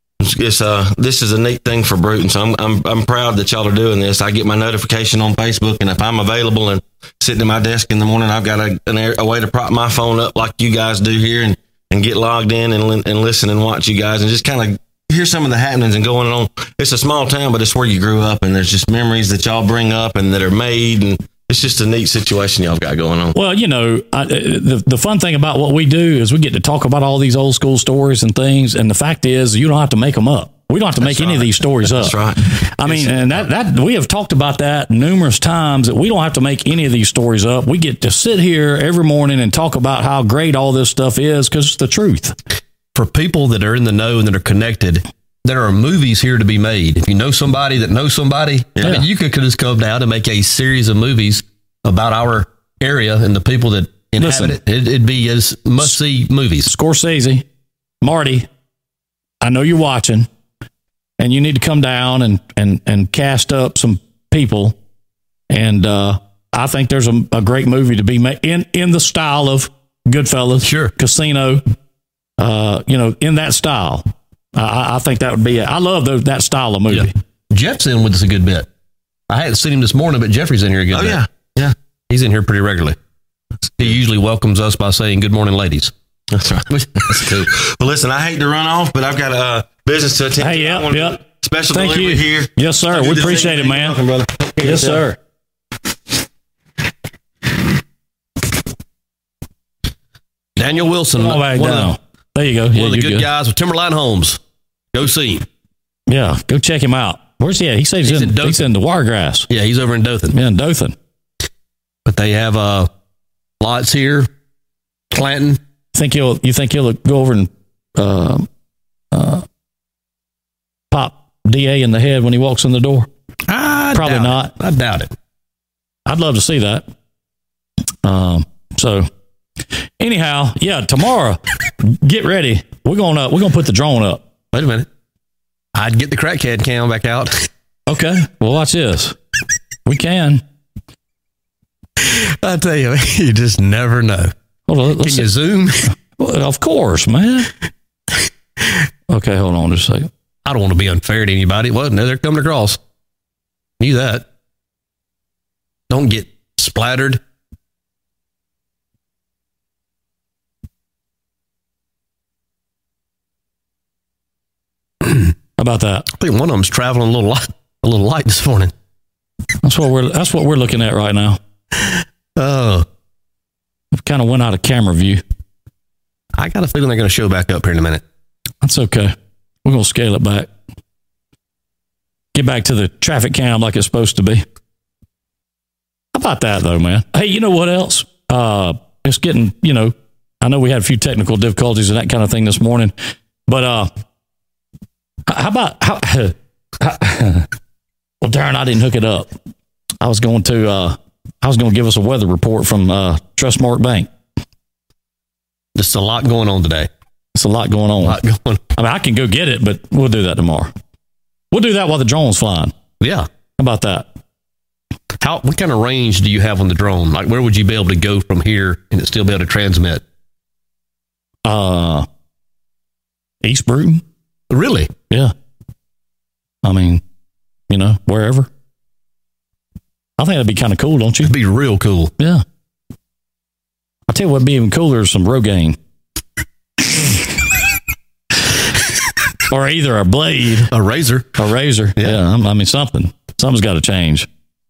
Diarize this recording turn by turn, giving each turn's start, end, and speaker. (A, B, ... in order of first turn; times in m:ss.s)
0:00.2-0:23.4 A
0:23.3-0:42.3 B
0:31.0-0:33.4 A
0:42.9-0:56.7 C
0:48.8-0:49.0 A
0:54.2-0:54.6 B
0:56.6-0:57.4 B
0:58.0-0:58.5 B
0:59.4-1:00.3 B
1:01.2-1:04.7 B
1:05.5-1:11.6 B
1:10.6-1:10.9 C
1:12.4-1:17.1 B
1:16.9-1:18.7 C
1:19.3-1:21.2 C
1:20.9-1:21.7 A
1:22.1-1:23.0 C
1:23.8-1:25.9 C
1:26.3-1:35.0 A
1:26.7-1:27.5 C
1:30.4-1:31.2 B
1:31.7-1:34.0 B
1:34.6-1:35.2 B
1:40.6-1:42.0 C
1:41.1-1:43.3 B
1:42.7-1:44.4 C
1:44.9-1:45.4 C
1:46.1-1:49.5 B
1:48.0-1:48.7 C
1:49.5-1:50.4 C
1:50.3-1:50.9 B
1:52.0-1:52.9 C
1:53.6-1:54.3 C
1:55.1-1:55.6 C
1:55.9-1:58.5 B
1:59.1-1:59.4 B
2:00.9-2:03.1 B
2:03.5-2:05.1 C
2:03.9-2:04.5 B
2:06.0-2:06.8 B
2:08.0-2:09.1 B
2:10.0-2:14.2 B
2:14.5-2:14.9 C
2:15.7-2:17.5 C
2:17.9-2:19.1 B
2:19.8-2:20.4 B
2:22.0-2:24.3 C
2:24.7-2:25.3 B
2:25.0-2:25.9 C
2:26.2-2:27.5 B
2:29.1-2:30.1 B
2:30.4-2:32.8 C
2:33.8-2:34.2 C
2:35.9-2:37.2 C
2:45.6-2:46.1 B
2:46.1-2:48.7 C
2:49.6-2:51.4 B
2:52.4-2:52.8 C
2:53.9-2:55.2 B
2:56.3-2:58.0 C
2:58.6-2:59.1 B
2:59.6-3:00.5 B
3:02.3-3:04.4 B
3:06.1-3:12.9 B
3:13.5-3:13.9 B
3:15.3-3:17.5 B
3:18.2-3:19.3 B
3:20.0-3:24.1 B
3:25.7-3:26.9 C
3:27.3-3:28.2 B
3:28.0-3:28.6 C
3:28.8-3:30.7 B
3:31.5-3:32.7 B
3:33.0-3:33.3 C
3:33.6-3:34.1 B
3:35.2-3:40.0 C
3:41.4-3:42.0 B
3:43.4-3:44.0 B
3:44.5-3:44.9 C
3:46.6-3:47.0 B
3:47.7-3:48.5 B
3:50.2-3:51.3 B
3:51.2-3:52.1 C
3:52.2-3:52.4 B
3:54.1-3:55.8 B
3:56.9-3:57.2 B
3:59.5-4:00.7 B
4:00.7-4:01.3 C
4:01.4-4:04.3 B